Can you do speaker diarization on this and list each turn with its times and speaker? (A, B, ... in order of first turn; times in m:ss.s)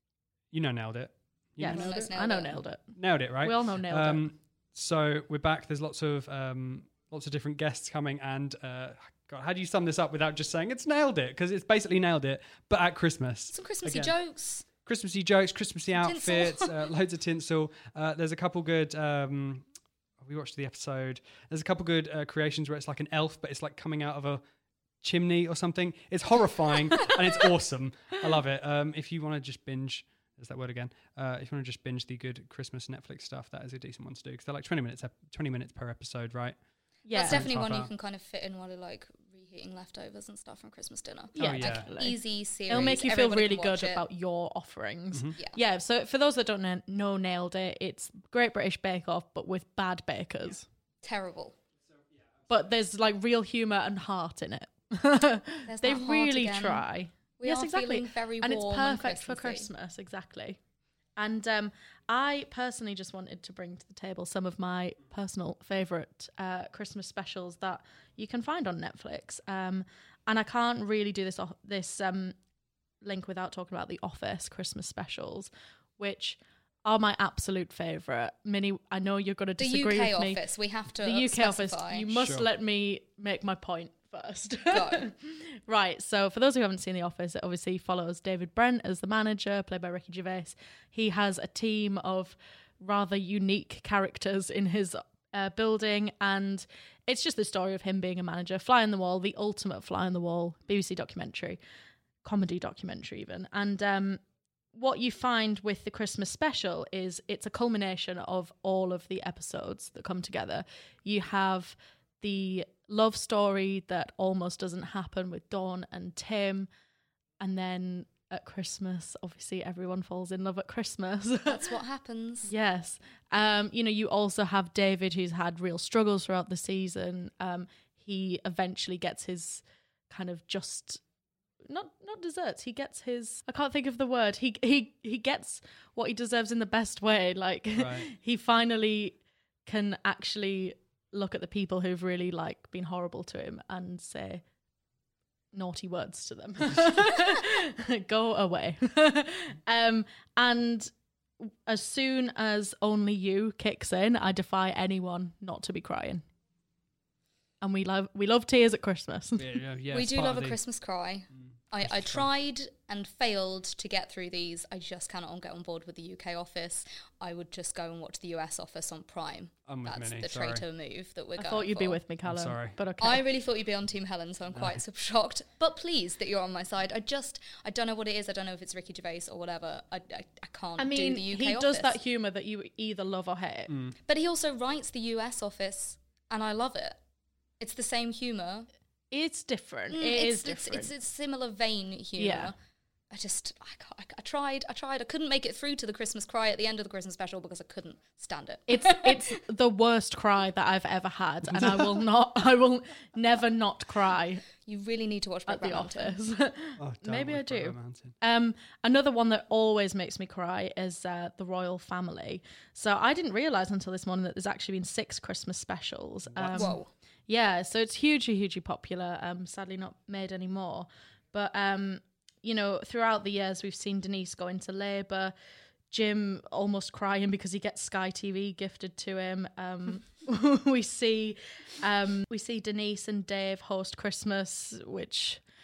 0:00.5-0:02.0 A
0:01.6-0:04.3 B
0:01.7-0:02.6 C
0:03.0-0:14.1 A
0:13.5-0:14.7 C
0:14.8-0:19.6 A
0:16.0-0:16.8 C
0:20.2-0:24.4 A
0:25.0-0:36.6 A
0:37.1-0:37.4 B
0:37.1-0:44.0 C
0:37.2-0:37.9 A
0:41.4-0:42.2 B
0:41.4-0:41.9 A
0:42.7-0:50.7 B
0:51.0-0:51.5 C
0:52.5-1:00.6 B
0:55.7-0:56.8 C
0:57.4-0:59.7 C
1:01.2-1:12.4 B
1:13.0-1:20.4 B
1:19.6-1:22.1 C
1:21.0-1:41.6 B
1:22.1-1:22.5 A
1:24.7-1:25.0 C
1:42.2-1:44.2 B
1:44.7-1:56.7 B
1:57.4-2:01.7 B
2:01.4-2:02.5 C
2:02.4-2:11.0 B
2:11.6-2:24.4 B
2:17.8-2:18.1 A
2:25.5-2:36.2 B
2:37.6-2:39.5 B
2:39.4-2:40.6 A
2:39.9-2:52.0 C
2:41.9-2:42.2 A
2:49.6-2:50.6 A
2:51.4-2:53.2 B
2:52.2-2:52.8 A
2:53.0-3:02.0 C
2:54.5-2:54.8 A
3:00.8-3:03.7 B
3:03.7-3:03.9 A
3:04.0-3:07.0 C
3:07.6-3:08.7 C
3:09.1-3:10.9 B
3:09.9-3:12.5 C
3:12.2-3:12.5 B
3:13.1-3:19.2 C
3:18.7-3:24.4 B
3:24.6-3:26.1 C
3:25.5-3:45.3 B
3:26.8-3:28.1 A
3:36.2-3:36.8 A
3:36.5-3:36.9 C
3:45.9-3:55.4 B